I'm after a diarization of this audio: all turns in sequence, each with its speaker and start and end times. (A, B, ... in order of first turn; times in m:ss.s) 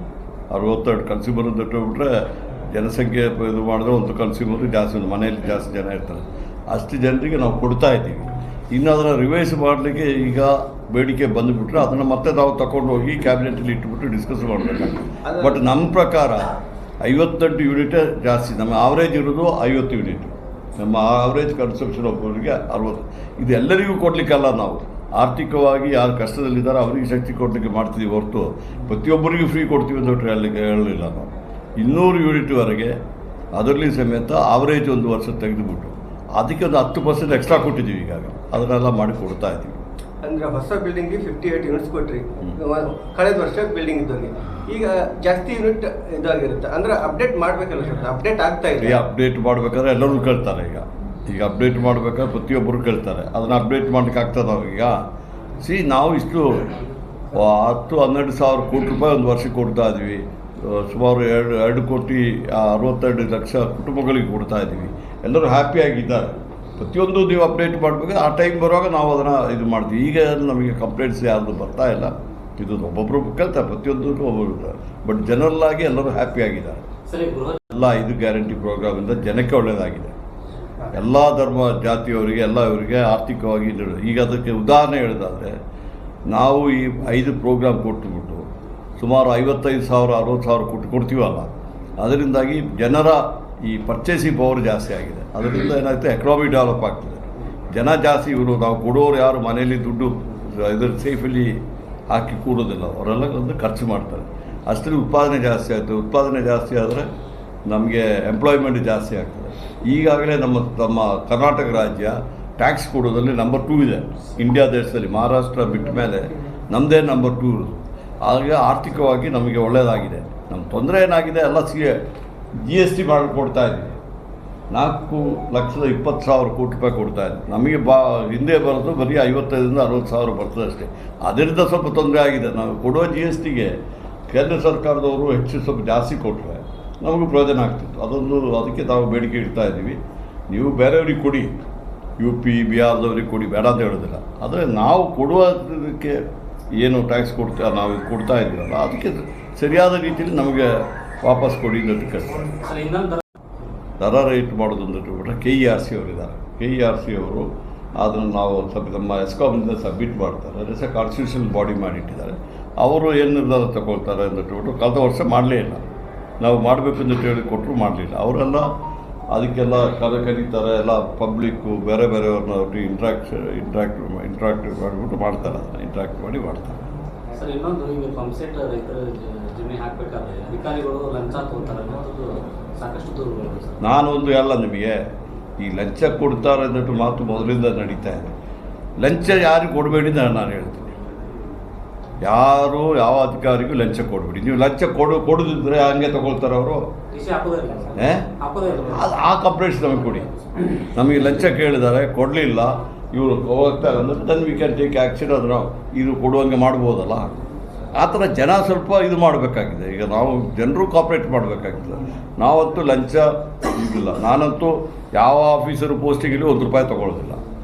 0:00.5-0:16.5 A
0:15.2-0:15.6 B
0:17.0-0:33.0 A
0:33.6-0:39.8 A
0:40.2-0:49.0 B
0:48.8-0:55.0 A
0:55.6-0:56.7 A
0:57.3-1:16.9 A
1:17.1-1:17.6 C
1:17.7-1:20.1 A
1:20.9-1:25.6 A
1:26.3-1:28.5 A
1:29.0-1:47.1 A
1:47.7-1:57.7 A
1:58.2-2:02.0 A
2:02.6-2:03.9 A
2:04.7-2:13.8 A
2:14.3-2:20.0 A
2:20.5-2:21.5 A
2:22.2-2:26.2 A
2:26.8-2:32.6 A
2:32.6-2:33.2 C
2:34.0-2:45.8 A
2:46.4-2:48.7 A
2:49.3-2:56.8 A
2:57.3-3:03.8 C
3:03.8-3:05.0 A
3:05.6-3:08.3 A
3:09.0-3:11.0 A
3:12.2-3:16.8 A
3:17.1-3:19.0 C
3:18.0-3:18.3 A
3:18.9-3:27.3 A
3:28.0-3:37.4 A